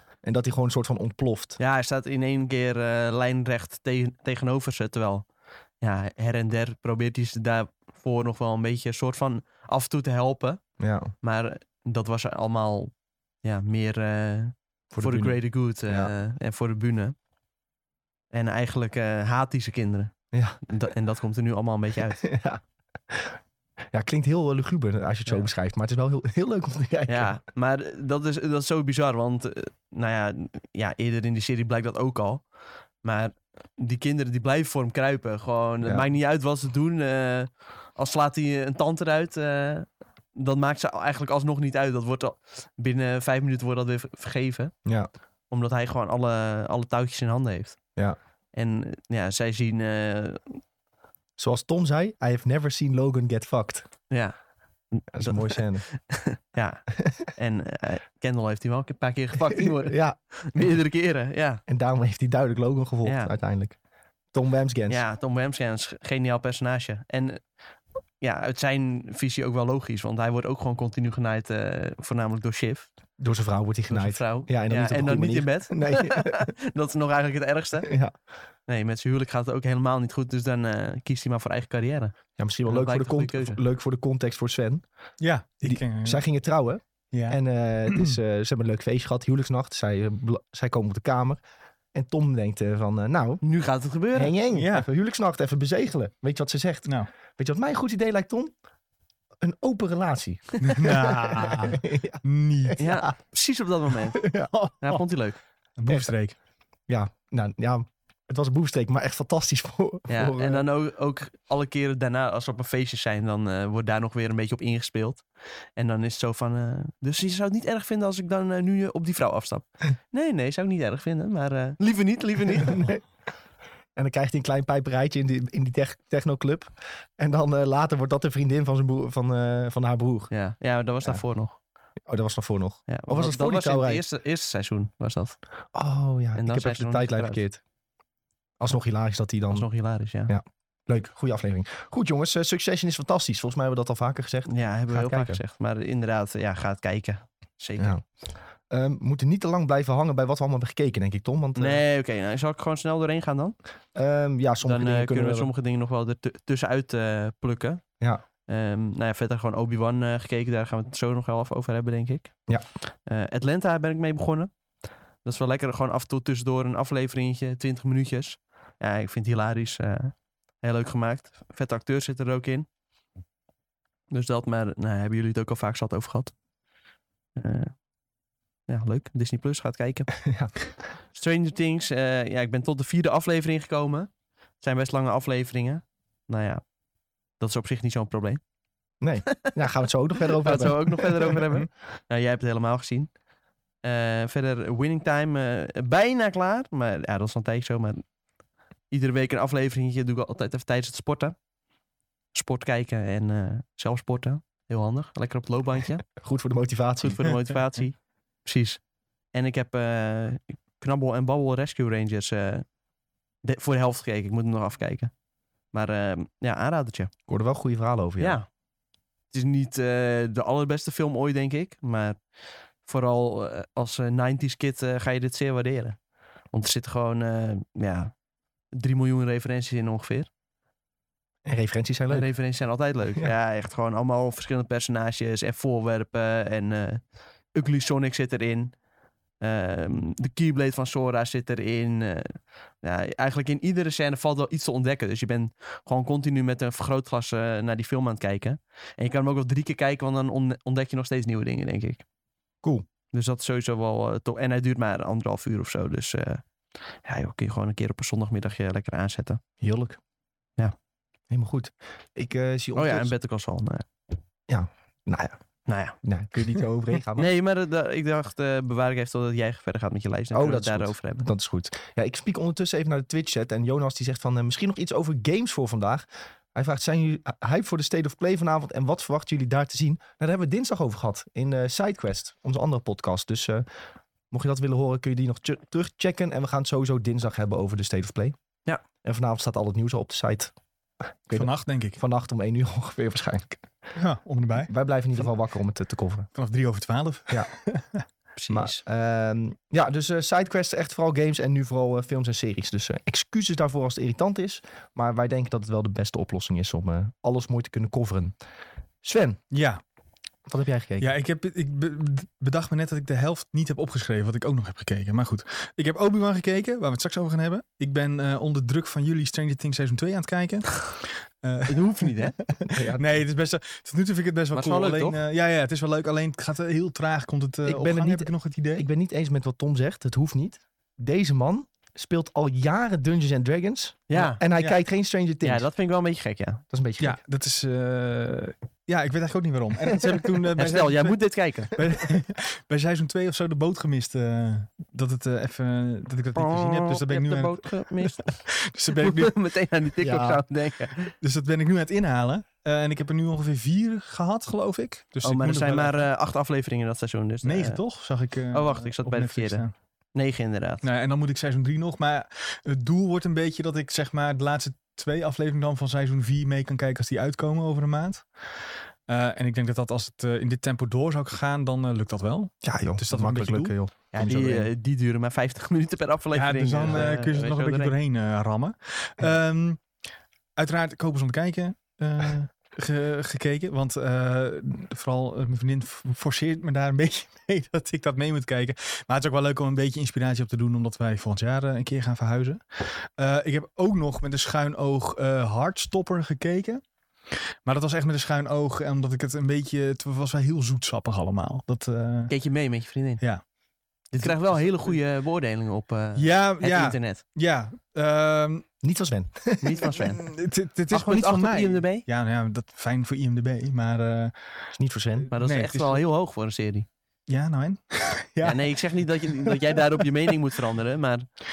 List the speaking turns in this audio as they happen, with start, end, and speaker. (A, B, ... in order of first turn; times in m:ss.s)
0:00.2-0:01.6 A
0:01.6-0:05.2 B
0:05.8-0:10.6 B
0:10.8-0:11.1 A
0:11.2-0:12.9 B
0:13.4-0:17.1 B
0:14.9-0:16.1 A
0:18.3-0:22.2 B
0:20.3-0:20.6 A
0:22.2-0:23.4 A
0:23.9-0:27.3 A
0:27.1-0:32.5 B
0:33.0-0:44.7 B
0:45.5-0:47.8 B
0:48.5-0:50.6 B
0:51.4-0:53.8 A
0:54.1-0:54.3 B
0:54.9-1:01.6 B
0:55.1-0:55.8 A
0:59.5-1:00.2 A
1:01.7-1:03.8 A
1:03.0-1:03.3 B
1:04.3-1:05.0 A
1:04.9-1:07.4 B
1:08.2-1:12.9 B
1:13.2-1:16.5 A
1:13.9-1:17.9 B
1:17.8-1:18.1 A
1:18.7-1:22.1 B
1:22.4-1:24.8 A
1:22.6-1:23.6 B
1:25.2-1:26.2 C
1:25.6-1:31.4 A
1:27.1-1:28.2 C
1:31.9-1:33.4 A
1:33.4-1:34.3 B
1:34.1-1:38.5 A
1:34.5-1:34.9 C
1:39.4-1:43.1 A
1:40.6-1:42.8 C
1:42.8-1:44.2 B
1:44.1-1:44.5 A
1:44.5-1:45.0 C
1:44.8-1:45.4 B
1:45.8-1:46.3 C
1:46.9-1:50.6 A
1:50.1-1:55.2 B
1:55.8-2:02.9 B
2:02.5-2:03.0 A
2:04.0-2:10.3 A
2:10.3-2:11.6 B
2:12.1-2:14.0 A
2:12.9-2:15.4 B
2:15.7-2:17.6 A
2:16.4-2:17.4 B
2:18.6-2:19.7 A
2:19.5-2:20.3 B
2:20.3-2:25.4 A
2:24.5-2:27.9 B
2:27.8-2:28.0 A
2:28.7-2:31.8 A
2:31.6-2:33.6 B
2:33.9-2:35.5 A
2:34.6-2:37.8 B
2:38.5-2:42.3 B
2:42.9-2:44.5 B
2:45.2-2:52.7 B
2:54.1-2:56.3 B
2:57.4-2:57.7 B
2:58.7-3:00.1 B
3:00.2-3:00.5 A
3:01.1-3:04.1 B
3:04.6-3:06.6 B
3:07.4-3:08.4 B
3:09.0-3:11.4 A
3:09.3-3:09.6 B
3:10.2-3:13.1 B
3:13.8-3:18.0 B
3:18.9-3:21.3 B
3:22.3-3:26.0 B
3:26.2-3:27.3 A
3:27.0-3:28.8 B
3:29.3-3:32.6 B
3:33.4-3:35.1 B
3:35.7-3:37.1 B
3:37.3-3:38.4 A
3:38.2-3:38.5 B
3:39.3-3:42.2 B
3:42.8-3:46.0 B
3:46.5-3:48.1 B
3:48.7-3:50.3 B
3:51.4-3:52.3 A
3:52.1-3:57.0 B
3:57.5-3:58.7 B
3:59.4-4:12.0 B
4:13.1-4:16.4 B
4:17.0-4:19.4 B
4:19.6-4:20.0 A
4:21.3-4:23.1 A
4:22.8-4:23.9 B
4:24.5-4:25.4 A
4:25.7-4:26.0 B
4:26.0-4:27.3 A
4:27.2-4:31.3 B
4:30.3-4:43.6 A
4:44.3-4:48.4 A
4:49.0-4:50.5 A
4:51.3-4:53.6 A
4:51.3-4:52.0 C
4:54.0-4:54.7 C
4:54.7-4:56.3 A
4:56.3-4:58.0 C
4:58.4-4:58.8 B
4:58.5-5:08.3 A
5:09.0-5:09.4 A
5:09.5-5:09.8 C
5:10.5-5:11.1 A
5:11.0-5:28.9 C
5:21.7-5:22.4 B
5:22.7-5:23.2 A
5:24.5-5:25.2 B
5:27.6-5:35.7 A
5:34.1-5:34.4 B
5:35.4-5:36.6 B
5:36.7-5:37.2 A
5:37.0-5:41.2 C
5:40.5-5:41.8 B
5:41.7-5:49.4 C
5:46.4-5:48.3 B
5:48.9-5:51.1 B
5:50.0-5:50.4 A
5:51.2-5:56.0 C
5:55.2-5:57.8 B
5:57.4-5:59.7 C
5:58.5-6:00.8 B
6:00.8-6:08.2 C
6:09.1-6:13.7 C
6:12.6-6:14.7 A
6:14.1-6:17.9 B
6:16.3-6:19.8 C
6:16.8-6:17.1 A
6:20.6-6:36.8 C
6:37.6-6:42.3 C
6:42.3-6:43.2 B
6:44.1-6:47.2 B
6:44.2-6:44.9 C
6:46.2-6:48.7 C
6:48.8-6:50.0 A
6:49.6-6:50.2 B
6:49.9-6:54.3 C
6:50.9-6:52.0 B
6:54.8-6:55.3 A
6:55.2-6:56.0 C
6:55.3-6:56.9 B
6:57.3-7:00.3 C
6:58.4-7:01.3 B